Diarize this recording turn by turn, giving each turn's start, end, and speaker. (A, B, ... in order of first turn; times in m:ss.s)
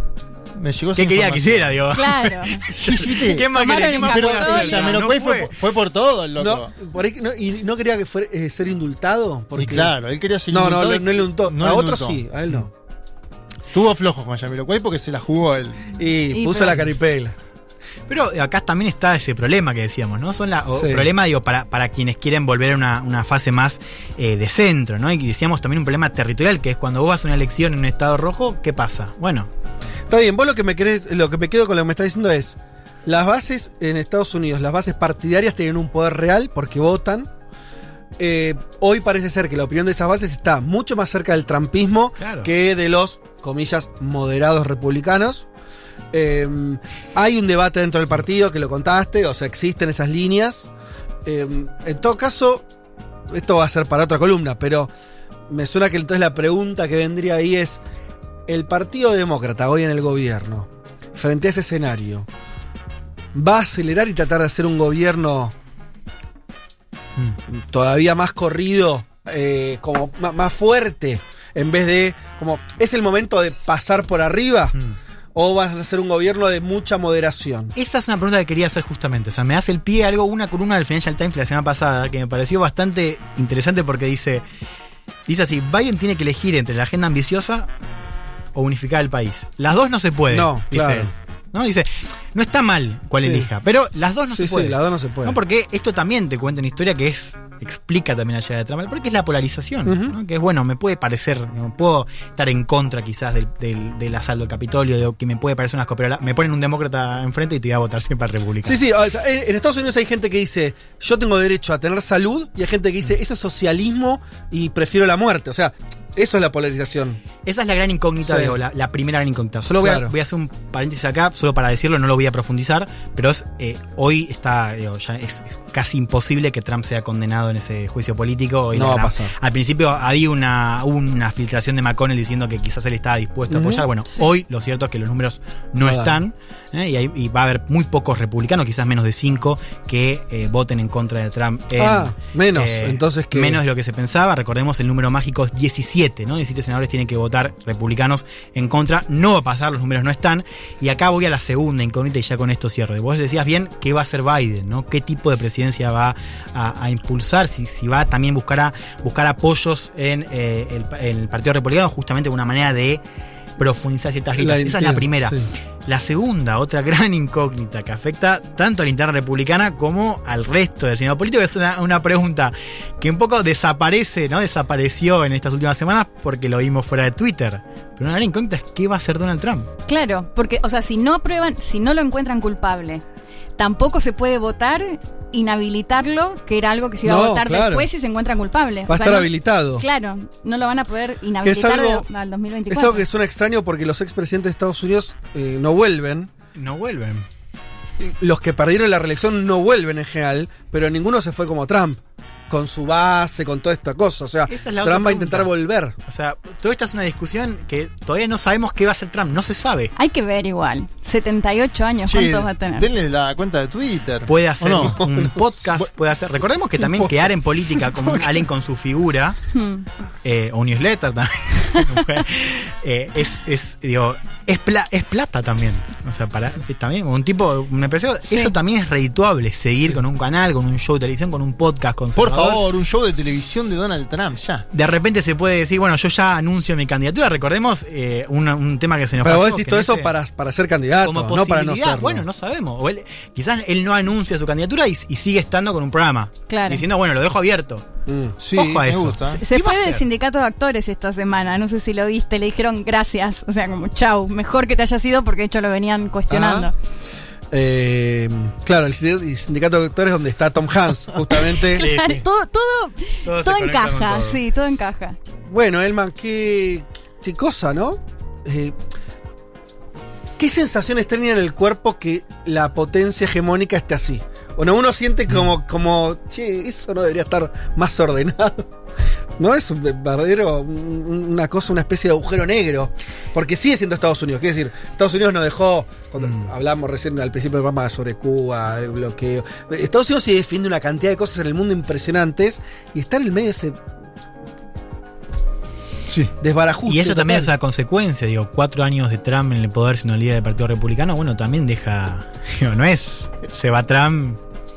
0:00.6-0:01.9 A
0:01.0-0:05.5 B
0:01.9-0:02.7 C
0:02.7-0:03.5 A
0:03.4-0:05.0 C
0:04.1-0:06.7 A
0:06.4-0:10.0 D
0:09.6-0:12.2 A
0:10.5-0:12.7 D
0:13.7-0:16.0 A
0:16.0-0:17.4 D
0:16.3-0:16.9 C
0:18.1-0:29.5 B
0:20.7-0:21.1 D
0:30.1-0:37.3 D
0:38.2-0:45.5 D
0:42.2-0:42.5 B
0:46.1-0:50.7 D
0:51.2-0:52.7 D
0:53.3-0:54.9 D
0:55.5-0:57.8 D
0:58.5-1:02.3 D
1:03.3-1:05.6 D
1:07.5-1:14.8 D
1:15.3-1:17.7 D
1:17.8-1:24.4 B
1:25.3-1:27.7 B
1:28.6-1:48.8 B
1:30.3-1:31.1 D
1:33.2-1:33.5 D
1:34.3-1:35.4 D
1:39.9-1:40.2 D
1:48.6-1:57.2 D
1:57.4-2:43.0 B
1:58.2-1:58.6 D
1:59.8-2:00.1 D
2:08.7-2:09.3 D
2:13.5-2:13.9 D
2:15.8-2:16.2 D
2:21.8-2:23.6 D
2:43.6-2:59.7 B
2:44.4-2:45.5 D
2:59.9-3:03.0 C
3:03.6-3:13.0 C
3:07.0-3:07.9 D
3:08.9-3:09.8 D
3:11.4-3:12.1 D
3:12.7-3:16.3 D
3:16.6-3:17.2 B
3:18.0-3:26.0 D
3:24.5-3:25.5 B
3:26.0-3:29.9 B
3:30.0-3:32.9 C
3:32.0-3:35.0 A
3:34.3-3:39.4 B
3:34.8-3:35.4 D
3:37.8-3:38.4 A
3:39.5-3:39.8 C
3:40.2-3:52.6 B
3:48.3-3:48.6 C
3:52.2-3:54.7 A
3:54.7-4:00.1 B
3:59.2-4:02.2 D
4:01.0-4:07.8 B
4:06.5-4:06.9 C
4:08.1-4:08.4 D
4:08.4-4:09.4 A
4:08.5-4:10.0 B
4:09.3-4:16.7 C
4:16.3-4:16.7 D
4:17.5-4:21.8 D
4:21.3-4:25.2 C
4:21.8-4:22.2 B
4:23.2-4:24.4 B
4:25.5-4:28.8 D
4:30.4-4:38.7 D
4:39.4-4:53.8 D
4:56.1-4:56.3 A
4:56.4-4:57.5 D
4:56.9-5:04.4 B